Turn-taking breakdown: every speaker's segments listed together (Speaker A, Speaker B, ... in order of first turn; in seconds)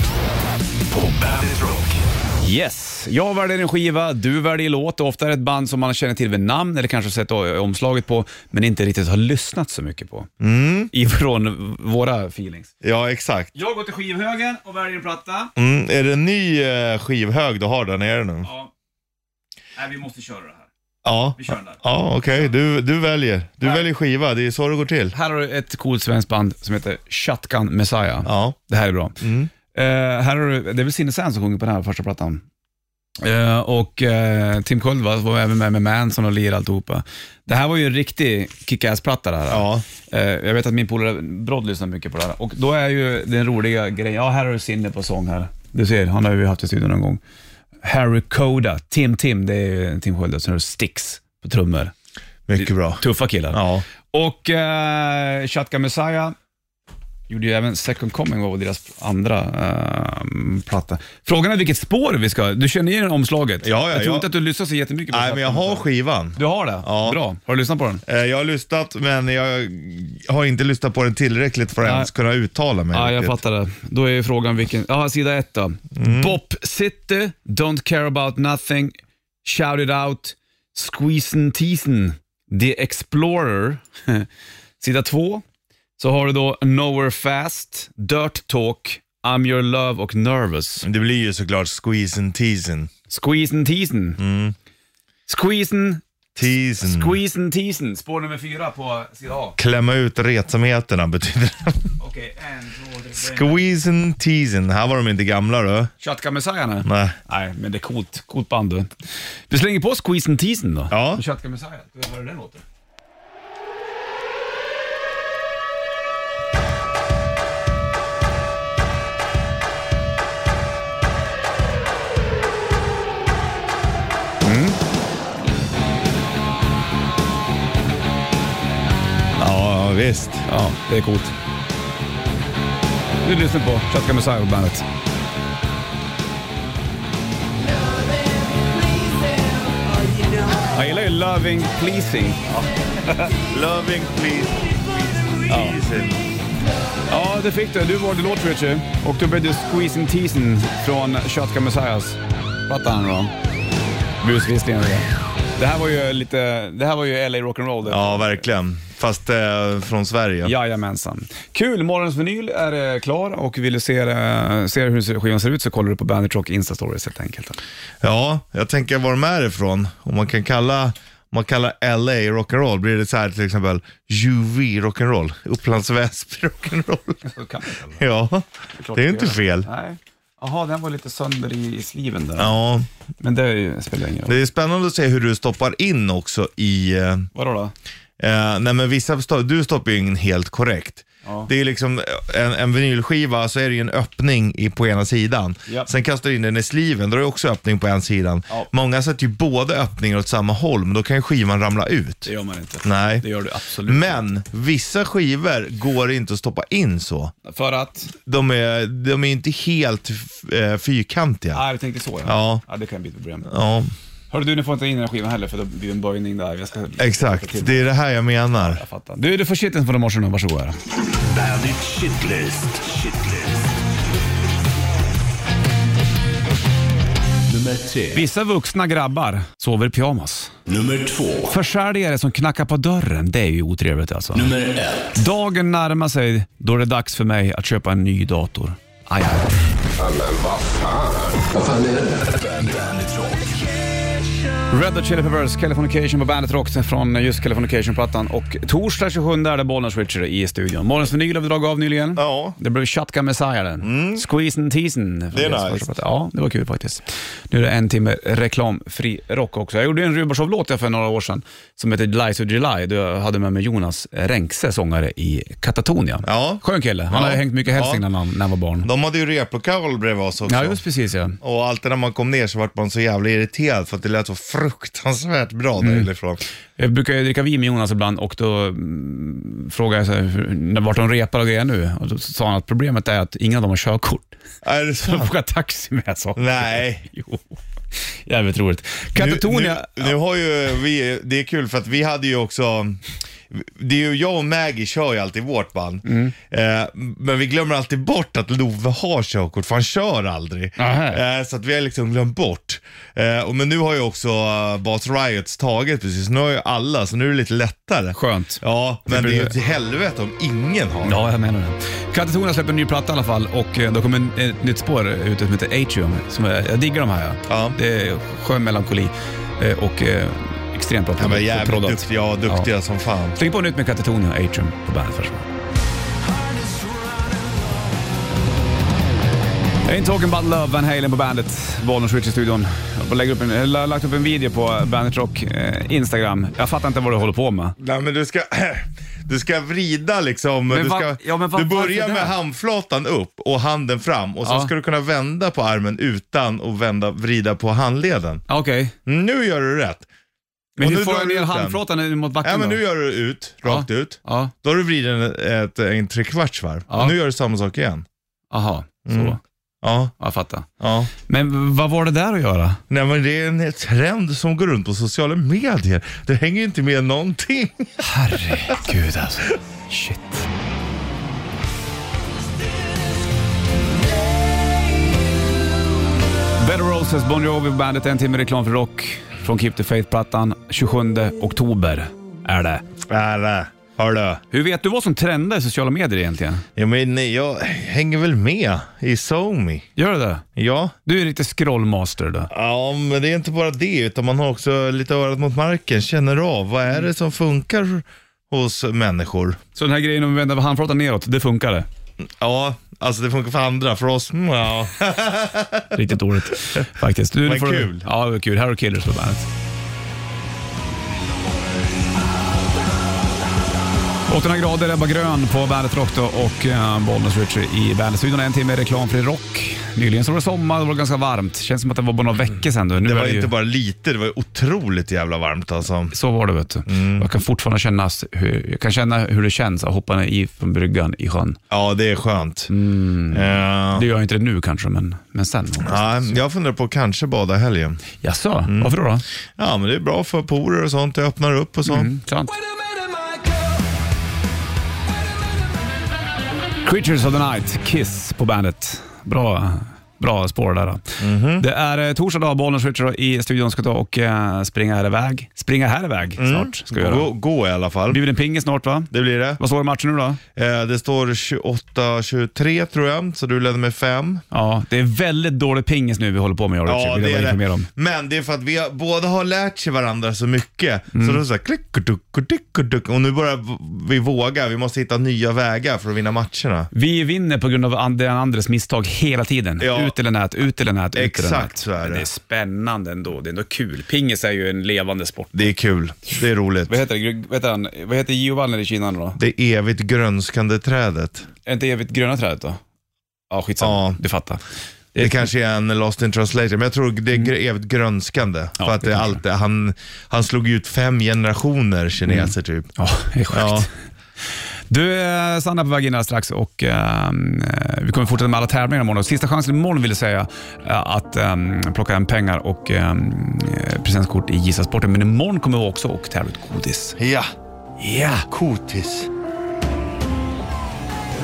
Speaker A: 0.9-2.0, 221.1-223.7, 227.5-228.2, 230.7-231.5, 234.3-235.2, 240.0-243.7
Speaker B: 2.4-10.3, 10.9-12.7, 13.5-15.5, 18.4-18.7, 19.8-20.7, 21.4-21.8, 25.1-29.2, 29.7-32.4, 33.2-47.2, 47.8-51.9, 52.6-56.4, 57.3-68.0, 71.8-72.1, 72.9-84.3, 84.8-85.4, 86.0-90.9, 93.1-94.2, 95.3-99.6, 102.0-103.6, 106.0-108.9, 109.5-112.6, 124.4-124.8, 130.5-131.3, 133.2-134.9, 140.7-142.4, 145.5-145.8, 147.1-153.3, 154.2-158.4, 160.4-167.6, 177.2-178.0, 178.8-182.6, 183.2-184.3, 187.3-187.7, 202.3-204.3, 207.4-208.1, 211.5-213.5, 214.3-217.9, 218.6-220.8, 228.1-230.5, 231.5-234.5, 235.2-239.5, 244.7-268.9, 270.5-271.4, 275.8-276.1, 276.8-284.4, 285.0-290.2, 296.1-296.4, 300.8-301.2, 308.1-309.5, 311.0-322.7, 323.4-325.5, 329.9-337.8, 340.7-342.4, 344.4-344.7, 348.5-348.9, 350.8-352.8, 353.6-354.5, 356.9-357.2, 358.5-359.4, 360.2-360.7, 361.2-362.8, 368.0-370.5, 376.6-382.9, 384.5-386.6, 390.0-390.4, 391.1-392.5, 399.8-401.9, 405.9-409.5, 414.3-423.5, 426.1-431.6, 432.7-436.4, 438.2-439.2, 441.9-442.5, 446.8-457.3, 458.1-460.4, 464.5-467.9, 471.1-471.4, 476.9-485.7, 486.9-489.4, 491.7-492.8, 493.5-494.6, 495.1-495.5, 498.8-499.4, 502.3-503.9, 504.9-517.2
Speaker C: 10.4-10.9, 12.8-13.5, 15.6-18.5, 21.0-25.1, 28.2-28.6, 29.2-29.5, 39.5-39.9, 52.5-53.9, 63.6-64.3, 65.1-67.2, 68.0-73.4, 76.0-76.4, 90.8-92.9, 94.2-94.5, 96.4-97.2, 99.6-101.9, 103.2-105.9, 106.8-107.2, 110.9-111.2, 129.4-130.4, 143.5-146.2, 157.9-160.5, 168.0-177.2, 177.9-179.7, 182.4-182.9, 184.3-187.3, 188.2-202.3, 202.8-203.3, 203.8-207.3, 208.2-211.6, 212.2-212.6, 213.5-213.9, 217.0-218.8, 252.2-252.6, 253.8-254.3, 255.3-255.9, 266.3-268.1, 268.8-270.8, 271.4-276.4, 284.6-285.3, 286.4-287.1, 289.2-311.2, 317.5-317.8, 321.2-323.4, 337.8-348.4, 349.1-350.1, 350.8-351.8, 352.4-358.1, 359.1-360.1, 360.8-361.1, 362.9-367.9, 383.1-384.4, 386.8-389.9, 390.6-390.9, 392.5-399.6, 402.2-406.0, 407.4-408.1, 423.0-426.2, 426.9-427.3, 431.7-432.7, 433.3-434.1, 435.8-438.0, 438.7-438.9, 439.6-442.1, 451.2-451.6, 456.4-458.2, 459.1-459.6, 460.6-464.4, 466.9-476.9, 479.8-480.1, 481.1-482.3, 485.5-487.0, 489.4-491.5, 493.8-494.2, 495.2-502.9, 503.5-503.9, 517.2-519.3